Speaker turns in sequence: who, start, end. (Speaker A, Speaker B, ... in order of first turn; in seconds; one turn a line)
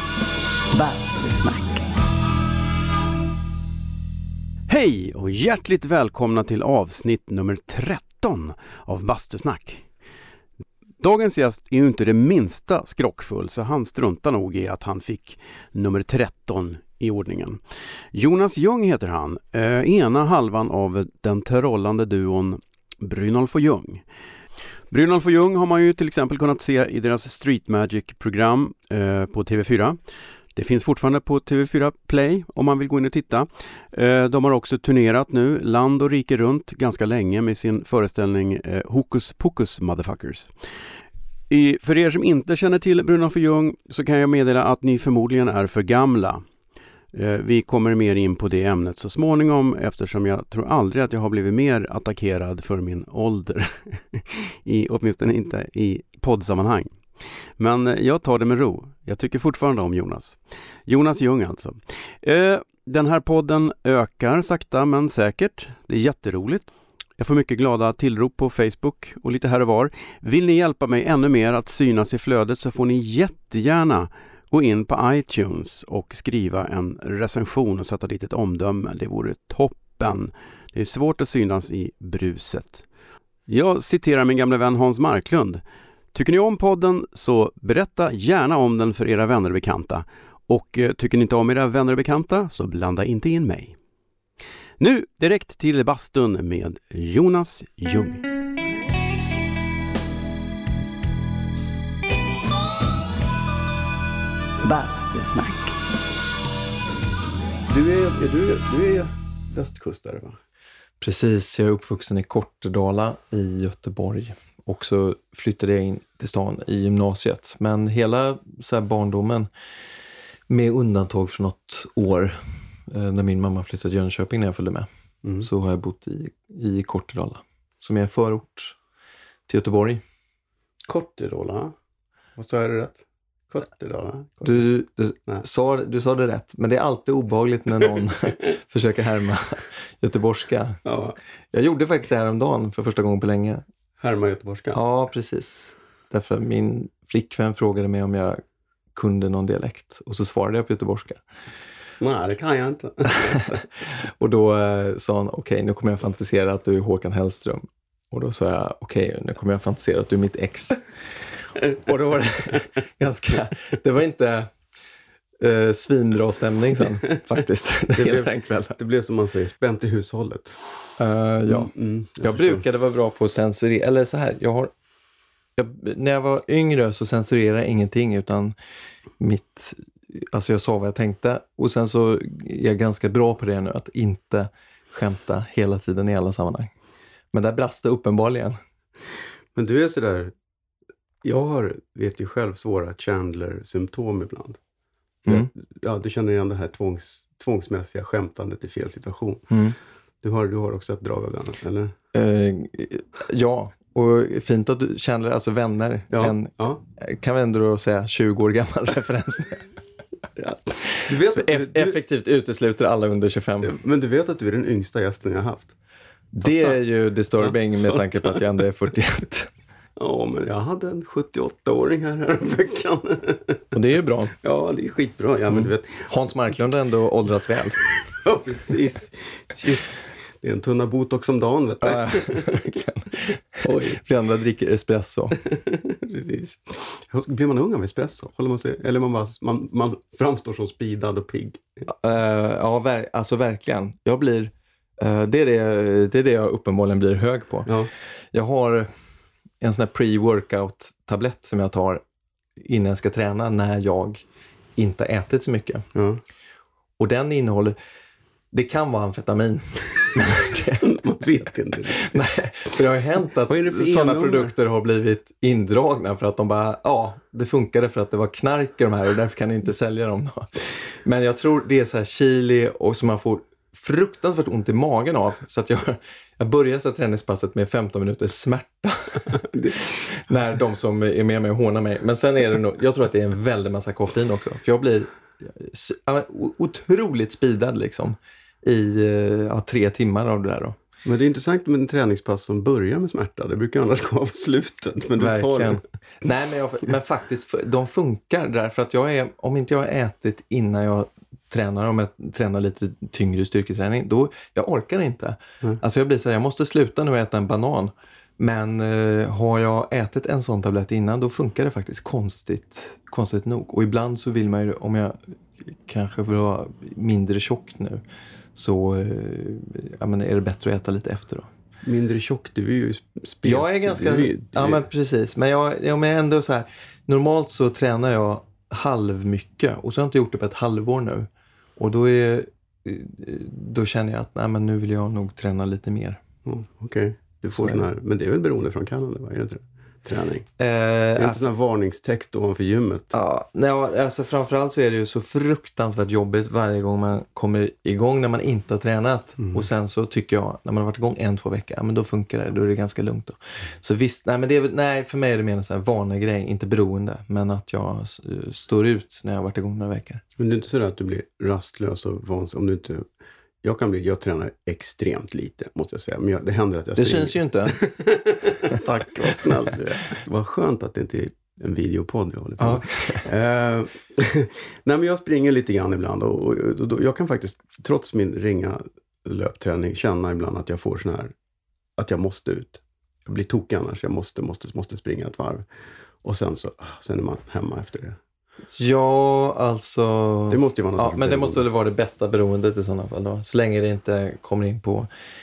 Speaker A: 0.7-1.8
Speaker B: 4.7-9.9
Speaker B: 11.0-24.0
Speaker B: 24.9-30.0
Speaker B: 30.5-40.5
Speaker B: 41.5-46.5
Speaker B: 47.1-57.0
Speaker B: 57.6-82.9
Speaker B: 83.5-85.6
Speaker B: 86.1-93.8
Speaker B: 94.8-98.2
Speaker A: 104.6-105.8
Speaker B: 107.7-110.4
Speaker C: 111.0-119.5
Speaker C: 120.5-124.9
Speaker B: 125.2-125.5
Speaker C: 125.4-128.8
Speaker C: 129.5-130.0
Speaker B: 130.9-131.7
Speaker B: 132.3-134.7
Speaker C: 134.4-140.8
Speaker B: 140.8-141.2
Speaker C: 141.5-143.6
Speaker B: 144.0-144.8
Speaker C: 144.7-148.4
Speaker C: 148.9-151.2
Speaker B: 152.0-153.6
Speaker C: 153.1-160.8
Speaker C: 161.8-164.5
Speaker C: 165.4-168.8
Speaker B: 168.0-170.7
Speaker C: 171.0-174.7
Speaker B: 171.4-172.6
Speaker C: 175.6-178.5
Speaker C: 179.2-186.7
Speaker C: 187.3-188.6
Speaker B: 189.5-190.3
Speaker B: 191.2-194.6
Speaker B: 195.3-199.5
Speaker C: 199.5-199.8
Speaker B: 200.2-201.9
Speaker C: 202.1-209.7
Speaker B: 206.1-206.8
Speaker C: 210.4-213.8
Speaker B: 211.1-212.0
Speaker B: 213.6-215.7
Speaker C: 216.3-219.5
Speaker B: 216.4-216.8
Speaker B: 217.4-218.4
Speaker B: 220.0-223.7
Speaker C: 223.7-224.3
Speaker B: 224.4-226.1
Speaker C: 225.5-227.8
Speaker B: 228.1-232.6
Speaker C: 231.8-235.4
Speaker B: 233.6-234.0
Speaker B: 235.5-241.7
Speaker C: 241.9-247.7
Speaker B: 247.7-247.9
Speaker C: 248.3-248.9
Speaker C: 249.6-252.0
Speaker C: 252.6-254.2
Speaker C: 254.8-255.9
Speaker B: 255.9-256.2
Speaker C: 257.0-257.8
Speaker C: 258.5-260.9
Speaker B: 260.8-262.2
Speaker C: 261.9-279.4
Speaker B: 263.5-264.5
Speaker B: 279.3-279.9
Speaker C: 280.1-290.8
Speaker B: 291.0-295.8
Speaker C: 295.2-318.0
Speaker C: 318.6-321.5
Speaker B: 321.8-324.9
Speaker C: 323.4-336.2
Speaker B: 336.4-340.5
Speaker C: 337.5-337.9
Speaker C: 340.6-341.5
Speaker B: 341.1-343.1
Speaker C: 343.1-360.2
Speaker B: 360.4-363.1
Speaker B: 363.6-381.3
Speaker C: 367.0-367.8
Speaker C: 372.6-373.2
Speaker B: 382.0-385.7
Speaker B: 386.2-388.2
Speaker C: 388.7-395.1
Speaker B: 390.5-391.6